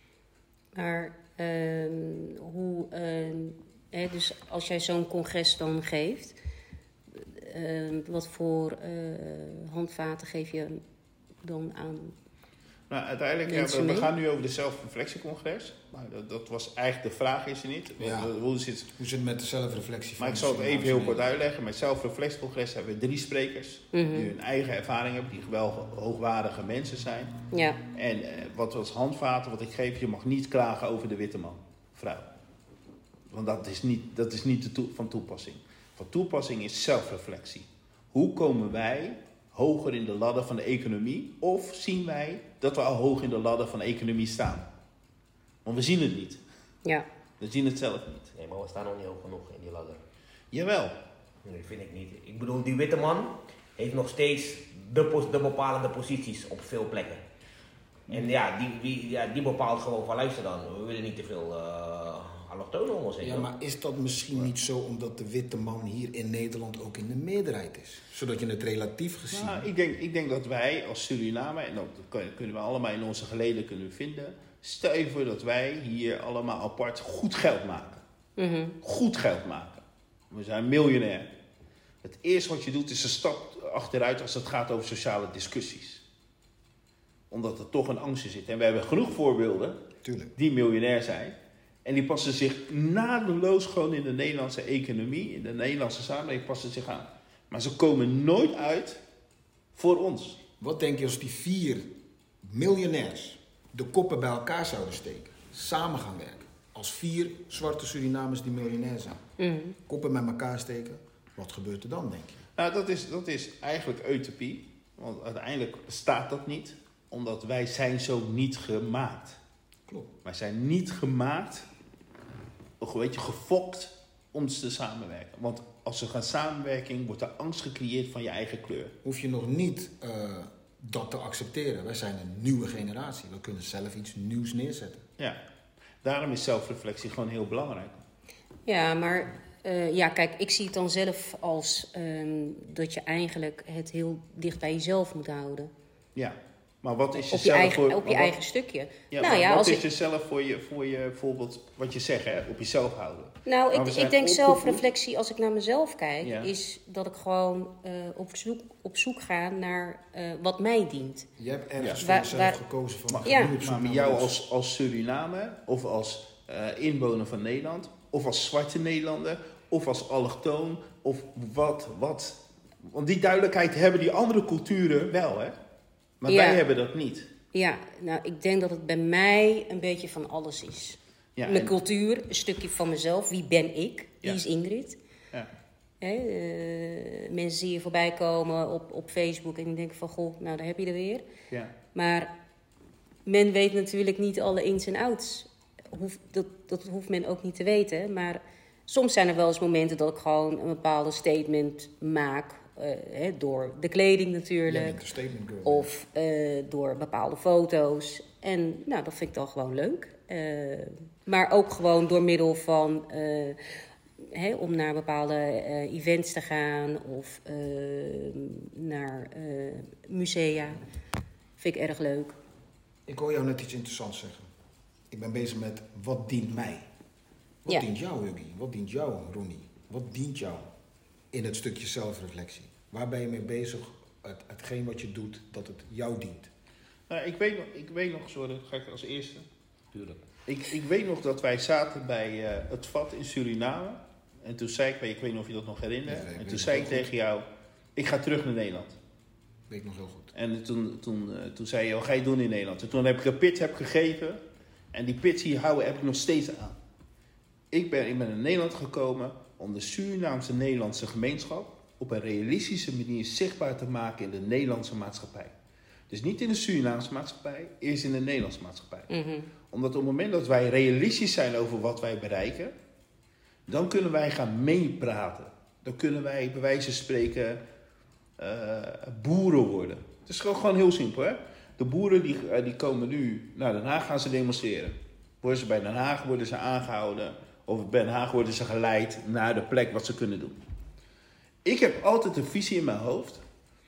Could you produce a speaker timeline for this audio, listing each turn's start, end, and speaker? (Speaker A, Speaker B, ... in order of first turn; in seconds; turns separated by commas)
Speaker A: 0.8-6.4, Speaker A: 7.2-10.8, Speaker A: 11.4-12.1, Speaker B: 12.9-18.9, Speaker A: 13.5-14.1, Speaker C: 18.0-18.3, Speaker C: 18.9-21.2, Speaker B: 20.2-27.4, Speaker A: 23.9-24.3, Speaker A: 27.5-27.8, Speaker B: 27.9-32.2, Speaker B: 33.3-44.7, Speaker B: 45.6-46.4, Speaker B: 47.4-48.3, Speaker D: 48.4-50.0, Speaker B: 50.5-51.0, Speaker D: 51.5-57.2, Speaker D: 58.1-63.5, Speaker C: 63.2-69.7, Speaker B: 69.3-78.0, Speaker A: 78.4-78.8, Speaker B: 78.8-81.3, Speaker B: 82.0-86.0, Speaker B: 87.3-89.8, Speaker C: 90.0-90.3, Speaker B: 90.4-99.0, Speaker B: 99.7-100.4, Speaker C: 100.6-109.2, Speaker A: 109.4-109.8, Speaker C: 109.9-112.4, Speaker B: 112.6-119.4, Speaker B: 120.2-121.7, Speaker B: 122.8-128.9, Speaker C: 129.0-135.0, Speaker B: 136.0-138.0, Speaker A: 138.7-145.7, Speaker B: 146.2-148.3, Speaker A: 147.3-149.8, Speaker B: 149.1-154.8, Speaker A: 153.5-161.3, Speaker B: 156.2-156.5, Speaker C: 161.4-164.3, Speaker B: 161.8-162.1, Speaker A: 162.0-162.6, Speaker B: 163.1-175.6, Speaker A: 163.2-163.5, Speaker B: 176.2-177.3, Speaker A: 176.3-176.6, Speaker A: 177.5-185.0, Speaker B: 181.4-181.7, Speaker A: 186.0-191.3, Speaker A: 191.9-192.3, Speaker A: 193.3-205.0, Speaker C: 204.7-205.9, Speaker A: 205.7-213.6, Speaker A: 214.3-220.8, Speaker A: 221.6-222.4, Speaker C: 223.1-224.5, Speaker C: 225.1-226.9, Speaker C: 227.7-230.7, Speaker C: 231.3-236.5, Speaker B: 237.1-239.5, Speaker D: 239.9-240.2, Speaker B: 240.5-247.4, Speaker C: 246.1-247.1, Speaker B: 248.0-249.0, Speaker C: 249.7-250.3, Speaker B: 250.3-254.4, Speaker B: 254.9-256.8, Speaker B: 257.7-265.5, Speaker B: 266.1-269.1, Speaker A: 269.1-269.5, Speaker B: 269.7-272.7, Speaker B: 273.7-277.6, Speaker B: 278.4-290.6, Speaker B: 291.6-293.4